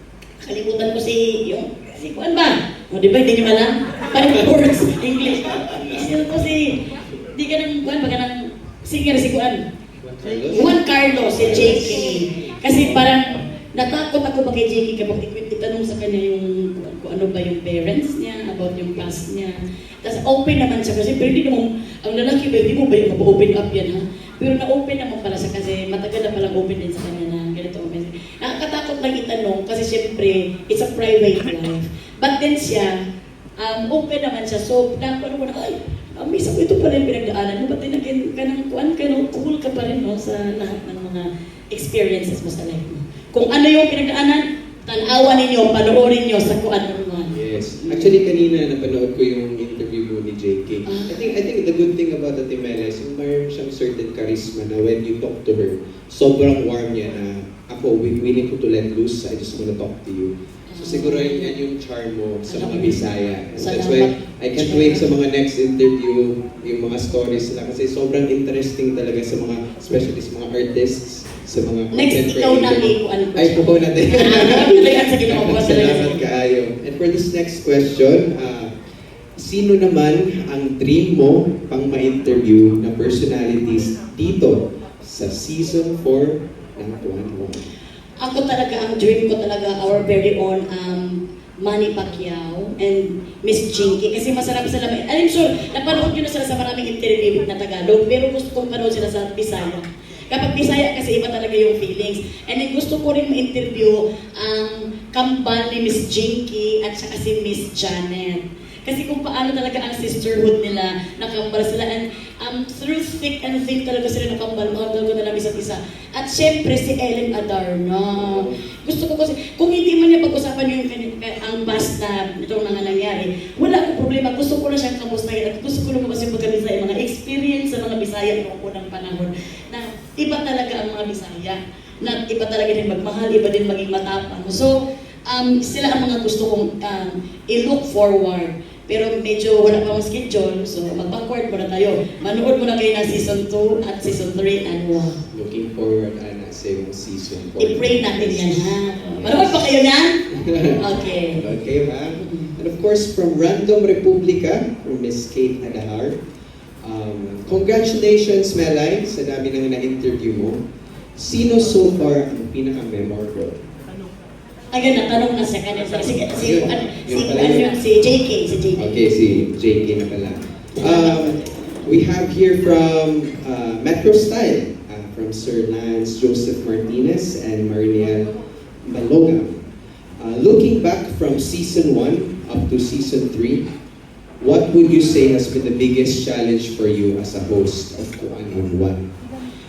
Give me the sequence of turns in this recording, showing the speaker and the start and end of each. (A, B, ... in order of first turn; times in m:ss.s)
0:00.4-0:06.8 A
0:05.4-0:06.1 B
0:07.3-0:09.6 A
0:10.0-0:12.2 B
0:10.5-0:33.0 A
0:33.6-0:48.1 A
0:47.3-1:18.7 B
0:50.8-0:51.3 A
1:00.7-1:01.5 A
1:02.5-1:03.0 A
1:03.5-1:05.1 A
1:11.9-1:16.2 A
1:19.4-1:27.6 B
1:28.2-2:14.8 A
1:58.2-1:58.6 B
2:15.3-2:25.2 A
2:25.3-2:29.8 B
2:27.6-2:30.2 A
2:30.3-2:30.8 B
2:30.8-2:31.4 A
2:31.3-2:36.2 B
2:32.2-2:32.5 A
2:36.8-2:40.6 B
2:41.2-2:43.6 B
2:44.7-2:49.0 A
2:46.4-2:47.8 B
2:48.8-2:58.3 B
2:50.8-2:51.6 A
2:58.8-2:59.6 B
3:00.2-3:03.7 B
3:04.4-3:09.1 B